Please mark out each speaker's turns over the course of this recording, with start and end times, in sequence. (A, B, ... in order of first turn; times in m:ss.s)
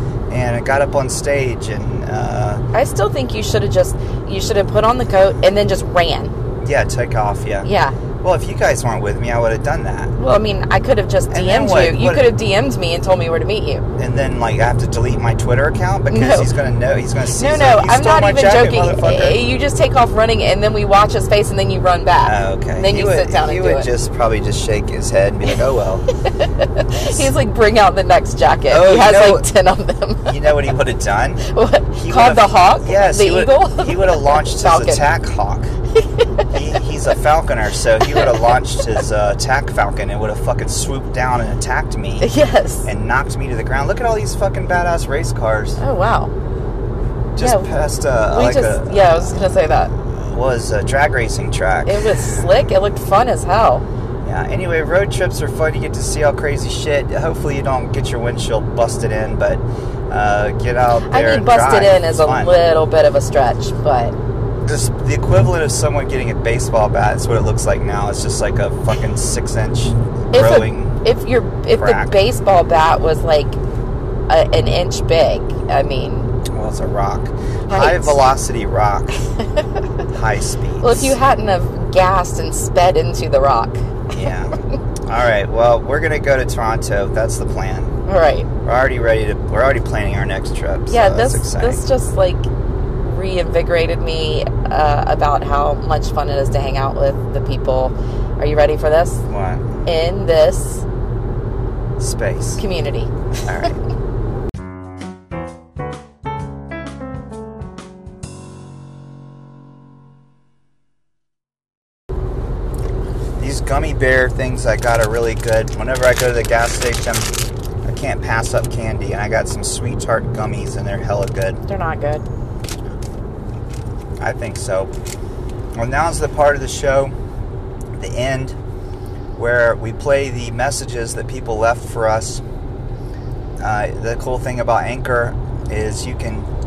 0:00.3-0:02.6 A
0:02.7-0:06.3 B
0:06.6-0:07.7 A
0:07.6-0:08.0 B
0:08.2-0:10.2 A
0:10.2-0:13.8 B
0:11.3-0:12.3 A
0:14.0-0:19.4 A
0:16.1-0:16.5 B
0:17.4-0:23.9 B
0:22.2-0:26.0 A
0:26.2-0:30.4 B
0:28.7-0:29.5 A
0:30.2-0:35.7 A
0:31.5-0:35.0 B
0:36.0-0:36.5 B
0:36.5-0:42.3 A
0:38.0-0:38.3 B
0:42.2-0:42.9 B
0:42.8-0:45.8 A
0:45.8-0:46.3 B
0:47.4-0:49.5 A
0:47.4-0:47.7 B
0:48.3-0:49.9 B
0:50.1-0:52.5 A
0:51.9-0:53.8 B
0:54.2-1:02.6 A
1:01.1-1:04.2 B
1:04.7-1:11.0 A
1:10.3-1:13.6 B
1:11.8-1:12.2 A
1:14.3-1:16.3 B
1:16.5-1:19.2 A
1:17.7-1:18.2 B
1:19.6-1:19.8 B
1:20.1-1:21.2 A
1:20.8-1:23.9 B
1:24.1-1:28.0 A
1:28.1-1:28.5 B
1:28.6-1:31.8 A
1:30.9-1:32.5 B
1:33.0-1:39.2 B
1:39.3-1:39.8 A
1:39.8-1:40.8 B
1:42.0-1:42.6 A
1:42.6-1:43.1 B
1:43.4-1:43.7 A
1:53.4-1:57.3 A
1:57.8-2:01.6 A
2:01.7-2:02.2 B
2:04.2-2:04.9 A
2:05.8-2:07.1 A
2:08.0-2:08.6 A
2:09.4-2:12.4 A
2:13.6-2:16.5 A